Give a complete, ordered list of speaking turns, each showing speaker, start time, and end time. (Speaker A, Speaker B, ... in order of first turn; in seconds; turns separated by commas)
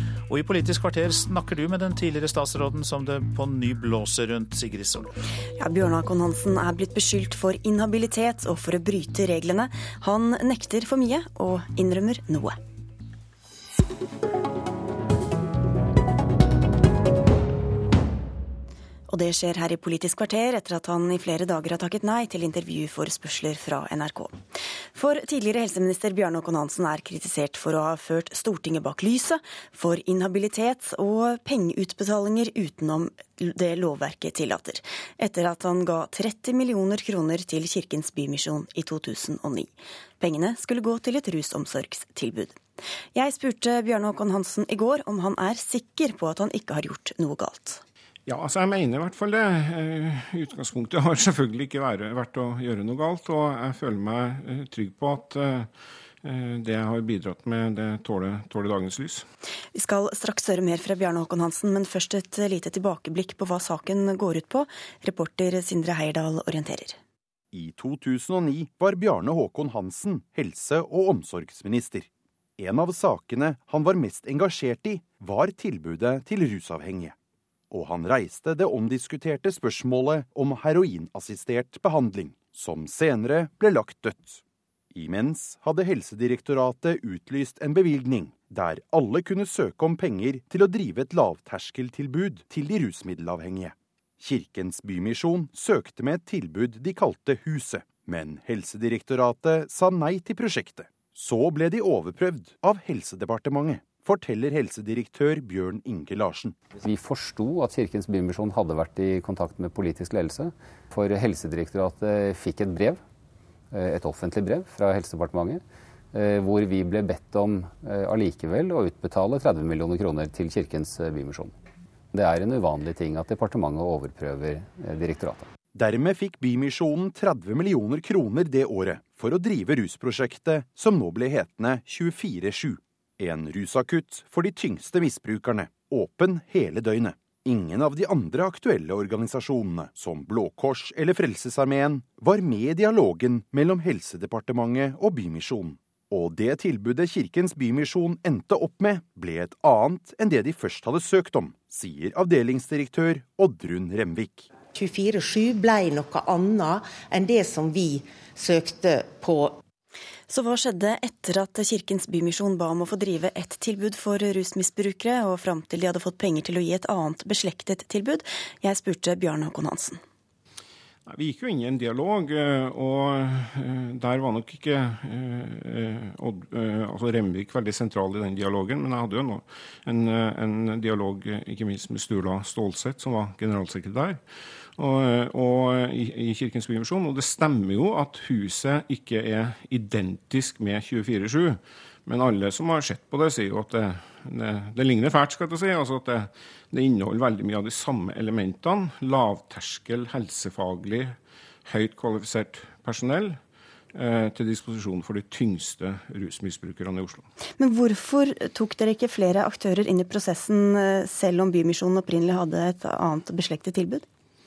Speaker A: 0.3-5.1, Speaker B: 5.6-12.5, Speaker B: 19.1-24.3, Speaker B: 24.9-42.6, Speaker B: 43.1-47.8, Speaker C: 48.2-55.7, Speaker C: 56.2-59.3, Speaker B: 59.7-67.0, Speaker D: 67.5-77.1, Speaker D: 77.7-84.4, Speaker D: 84.9-106.6, Speaker E: 106.8-113.0, Speaker E: 113.7-115.6, Speaker E: 116.1-121.5, Speaker E: 122.1-125.5, Speaker D: 125.7-154.5, Speaker F: 154.8-156.6, Speaker F: 157.1-157.9, Speaker F: 158.5-159.4, Speaker B: 160.3-170.0, Speaker C: 171.1-184.2, Speaker C: 184.8-203.4, Speaker C: 203.9-207.3, Speaker B: 207.6-214.0